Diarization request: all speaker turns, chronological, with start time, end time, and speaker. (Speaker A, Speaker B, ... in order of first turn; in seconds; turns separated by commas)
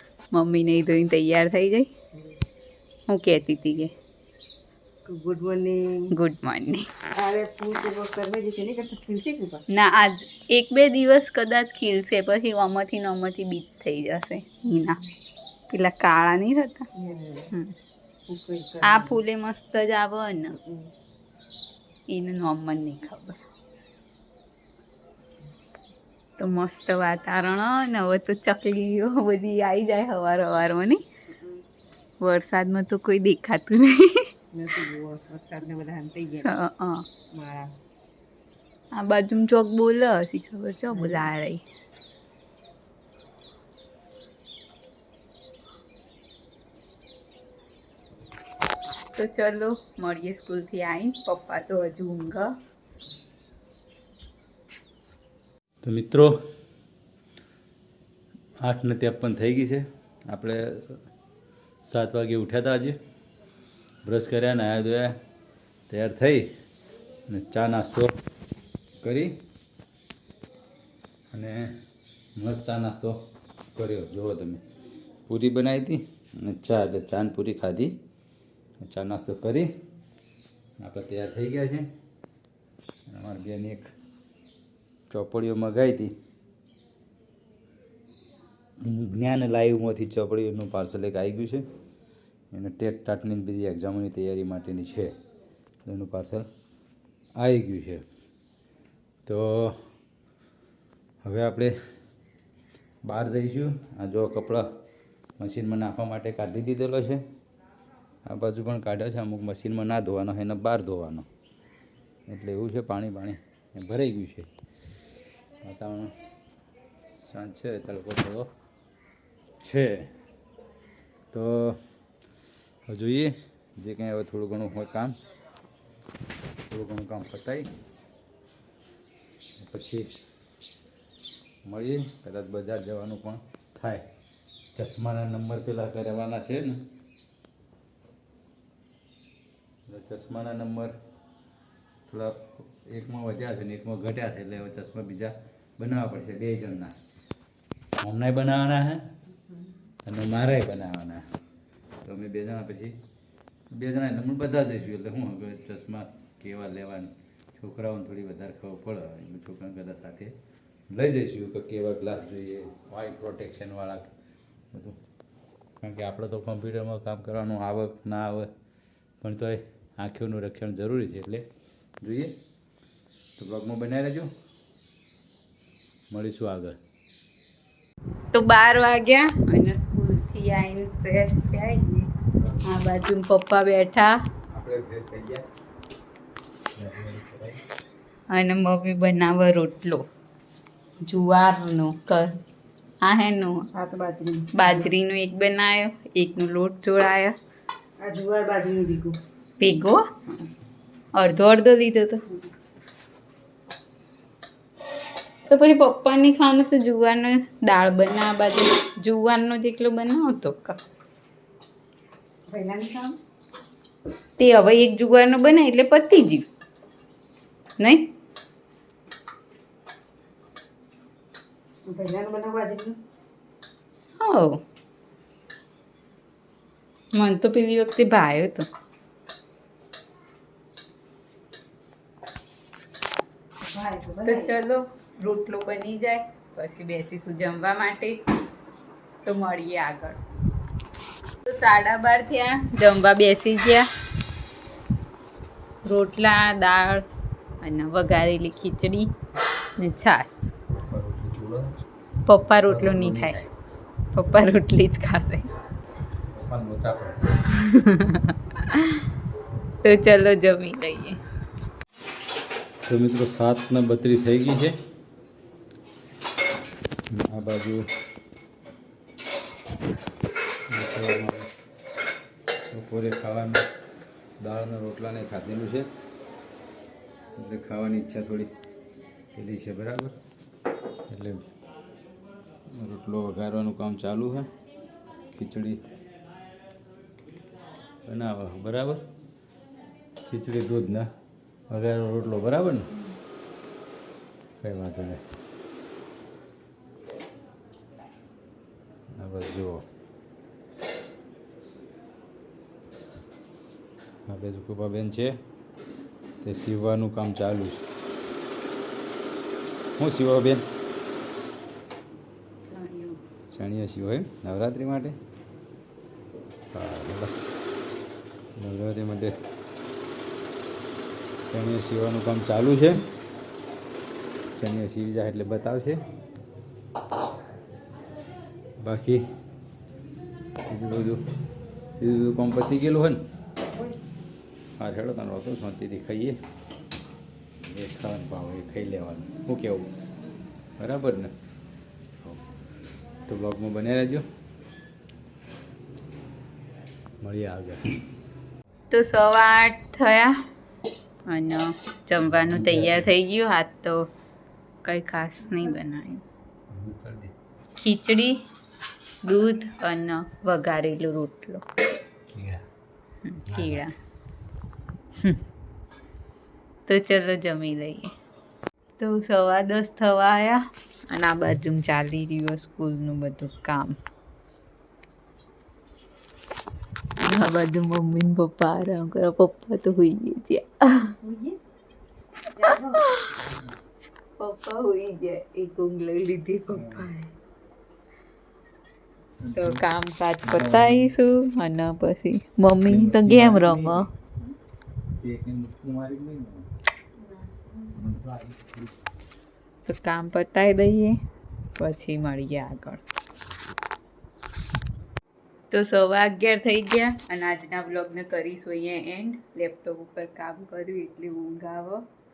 Speaker A: 0.3-1.9, Speaker A: 3.1-3.9, Speaker B: 5.0-6.1, Speaker A: 6.1-6.9, Speaker B: 7.1-9.6, Speaker A: 9.7-15.0, Speaker A: 15.7-16.9, Speaker B: 16.9-17.5, Speaker B: 18.3-19.1, Speaker A: 18.8-20.6, Speaker B: 20.6-20.9, Speaker A: 22.1-23.4, Speaker A: 26.4-31.0, Speaker B: 31.3-31.6, Speaker A: 32.2-34.2, Speaker B: 34.5-36.5, Speaker A: 36.4-37.0, Speaker B: 37.3-37.7, Speaker A: 38.9-41.6, Speaker B: 40.9-41.3, Speaker A: 49.1-52.5, Speaker C: 55.8-56.3, Speaker C: 58.6-61.0, Speaker C: 61.8-63.0, Speaker C: 64.0-65.2, Speaker C: 65.9-66.5, Speaker C: 67.3-68.1, Speaker C: 69.0-69.3, Speaker C: 71.3-71.7, Speaker C: 72.4-73.1, Speaker C: 73.7-74.6, Speaker C: 75.3-77.9, Speaker C: 78.8-79.7, Speaker C: 80.8-81.9, Speaker C: 83.1-83.9, Speaker C: 85.1-86.1, Speaker C: 88.8-91.6, Speaker C: 92.5-95.1, Speaker C: 95.8-96.5, Speaker C: 97.4-98.0, Speaker C: 99.2-99.8, Speaker C: 101.2-101.7, Speaker C: 103.0-104.6, Speaker C: 105.4-107.2, Speaker C: 108.2-111.3, Speaker C: 112.3-114.5, Speaker C: 115.6-116.1, Speaker C: 117.2-118.5, Speaker C: 119.6-120.1, Speaker C: 121.3-121.8, Speaker C: 122.9-125.1, Speaker C: 126.7-127.7, Speaker C: 129.6-130.1, Speaker C: 131.7-134.0, Speaker C: 134.7-136.8, Speaker C: 139.9-140.9, Speaker C: 142.1-146.9, Speaker C: 148.0-149.0, Speaker C: 150.0-151.2, Speaker C: 152.0-152.9, Speaker C: 153.7-160.3, Speaker C: 160.9-164.1, Speaker C: 164.7-165.0, Speaker C: 165.8-168.5, Speaker C: 169.2-171.4, Speaker C: 172.0-172.3, Speaker C: 173.4-174.3, Speaker C: 176.1-176.8, Speaker A: 178.3-182.1, Speaker C: 182.4-182.9, Speaker A: 182.6-184.2, Speaker C: 184.5-185.4, Speaker C: 186.8-187.6, Speaker A: 188.3-190.0, Speaker A: 191.0-192.4, Speaker A: 193.0-193.7, Speaker B: 193.7-194.9, Speaker A: 194.5-197.3, Speaker B: 198.0-199.2, Speaker A: 199.6-200.0, Speaker A: 201.1-202.2, Speaker A: 205.5-210.8, Speaker B: 212.5-213.2, Speaker A: 214.4-216.4, Speaker B: 221.8-223.0, Speaker A: 224.2-224.6, Speaker A: 227.1-228.7, Speaker B: 233.7-234.5, Speaker A: 234.2-238.2, Speaker A: 239.2-240.2, Speaker A: 241.4-243.9, Speaker A: 245.8-247.1, Speaker A: 247.6-249.1, Speaker A: 249.8-250.5, Speaker C: 250.9-251.7, Speaker A: 252.2-253.4, Speaker C: 252.5-253.4, Speaker A: 254.1-255.5, Speaker C: 256.3-257.2, Speaker A: 257.5-259.1, Speaker A: 259.8-261.2, Speaker C: 262.9-264.7, Speaker C: 267.1-267.9, Speaker C: 270.7-271.5, Speaker C: 272.7-273.7, Speaker C: 274.4-275.9, Speaker C: 277.4-278.5, Speaker C: 279.3-280.1, Speaker C: 281.1-281.4, Speaker C: 282.7-284.5, Speaker C: 285.3-285.8, Speaker C: 288.1-289.0, Speaker C: 290.2-291.1, Speaker C: 291.7-292.9, Speaker C: 294.6-295.2, Speaker C: 299.1-299.8, Speaker C: 304.3-305.3, Speaker C: 306.4-307.8, Speaker C: 310.0-310.6, Speaker A: 312.6-313.2, Speaker C: 313.5-315.2, Speaker C: 316.7-317.3, Speaker C: 318.6-319.4, Speaker C: 321.4-323.0, Speaker C: 324.6-326.0, Speaker C: 328.8-329.2, Speaker C: 330.7-331.2, Speaker C: 332.0-333.2, Speaker C: 334.8-336.4, Speaker C: 337.6-339.9, Speaker C: 340.8-341.3, Speaker C: 343.3-344.2, Speaker C: 347.2-347.9, Speaker A: 348.9-350.3, Speaker A: 351.3-354.1, Speaker C: 352.2-353.1, Speaker A: 354.8-356.2, Speaker C: 356.7-357.3, Speaker A: 357.8-358.4, Speaker A: 359.2-361.6, Speaker C: 362.3-362.6, Speaker A: 363.2-363.9, Speaker C: 363.5-363.8, Speaker A: 366.9-368.1, Speaker A: 369.0-374.0, Speaker A: 377.2-381.1, Speaker B: 381.2-381.6, Speaker B: 382.5-383.0, Speaker A: 382.6-383.3, Speaker A: 384.4-387.3, Speaker C: 386.7-387.1, Speaker C: 389.4-389.8, Speaker A: 389.6-394.1, Speaker C: 390.4-391.1, Speaker C: 392.9-394.1, Speaker C: 395.2-396.7, Speaker C: 397.9-398.9, Speaker A: 399.8-401.2, Speaker A: 401.8-403.0, Speaker A: 405.7-412.0